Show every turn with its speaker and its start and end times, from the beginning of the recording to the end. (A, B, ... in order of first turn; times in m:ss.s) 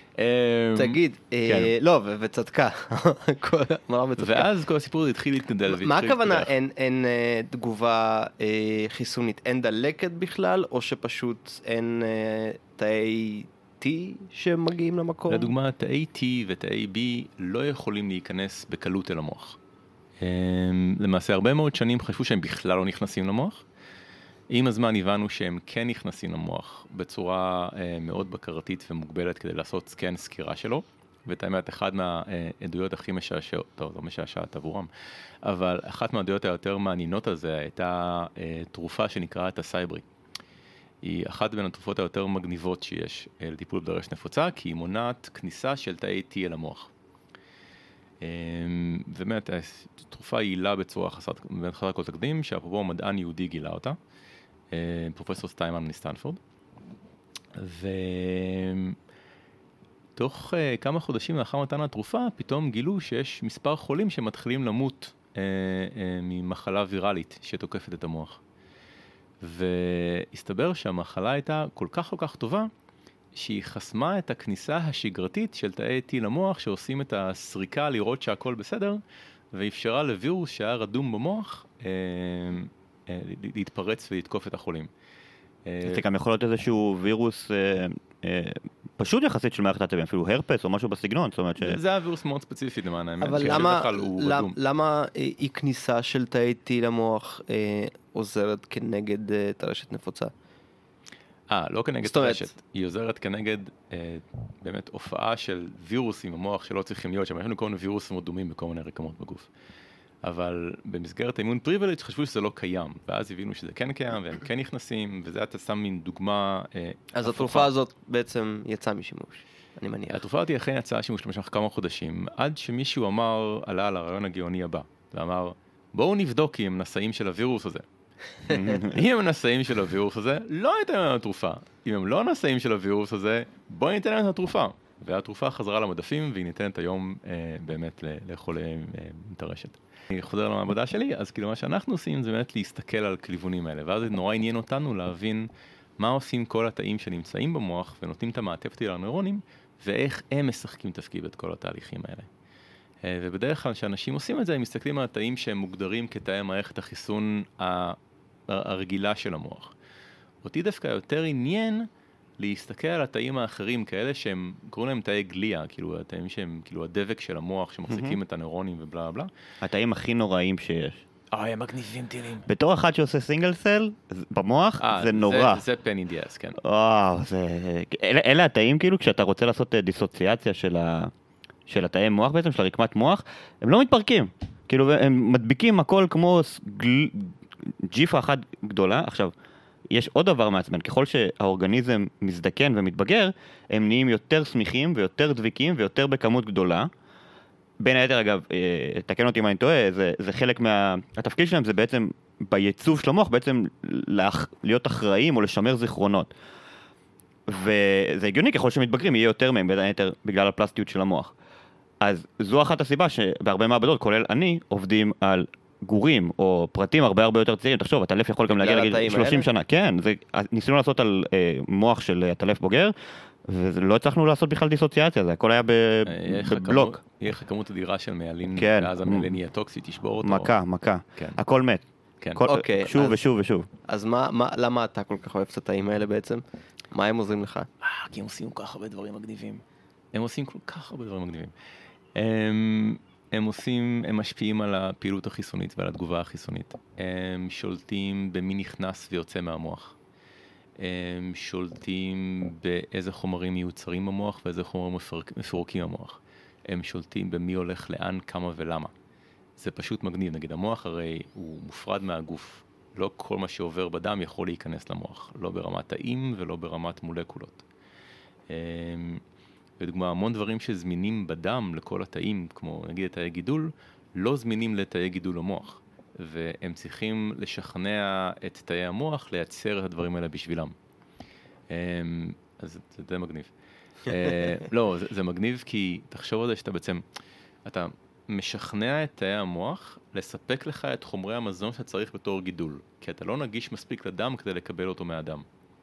0:00.2-0:01.7 A
0:00.8-0:04.5 B
0:04.2-0:06.5 A
0:05.7-0:15.5 B
0:15.3-0:19.6 A
0:20.2-0:23.6 A
0:24.5-0:34.9 A
0:35.4-0:40.0 A
0:41.0-0:46.9 A
0:48.2-0:54.0 A
0:54.7-0:56.4 A
0:57.6-0:59.0 A
1:00.2-1:08.4 A
1:09.4-1:12.7 A
1:13.3-1:19.0 A
1:19.5-1:24.9 A
1:25.6-1:26.0 A
1:25.8-1:31.8 C
1:31.6-1:34.6 A
1:33.2-1:40.3 B
1:41.5-1:49.5 A
1:42.0-1:42.5 B
1:50.2-1:57.7 A
1:57.1-2:00.2 B
2:00.1-2:07.8 A
2:08.5-2:09.0 C
2:08.7-2:25.5 A
2:26.0-2:32.3 A
2:33.0-2:38.0 A
2:38.5-2:39.7 A
2:40.4-2:41.9 A
2:42.4-2:49.3 A
2:47.9-2:48.2 C
2:49.6-2:51.0 C
2:51.3-2:52.4 A
2:52.4-2:55.6 C
2:54.8-2:56.6 A
2:56.6-3:01.1 C
3:01.7-3:09.3 C
3:09.9-3:16.9 C
3:17.8-3:26.3 C
3:27.5-3:31.3 C
3:32.0-3:42.9 C
3:38.5-3:39.4 B
3:43.4-3:47.0 C
3:46.0-3:50.5 A
3:48.5-3:49.3 C
3:50.2-3:51.8 C
3:52.4-3:53.6 C
3:52.4-3:53.2 B
3:53.9-3:57.7 B
3:57.8-4:01.5 A
4:02.2-4:10.0 A
4:10.8-4:18.9 A
4:19.6-4:27.6 A
4:28.5-4:29.2 A
4:29.8-4:40.7 A
4:41.7-4:43.5 A
4:44.0-4:47.0 A
4:47.6-4:55.4 A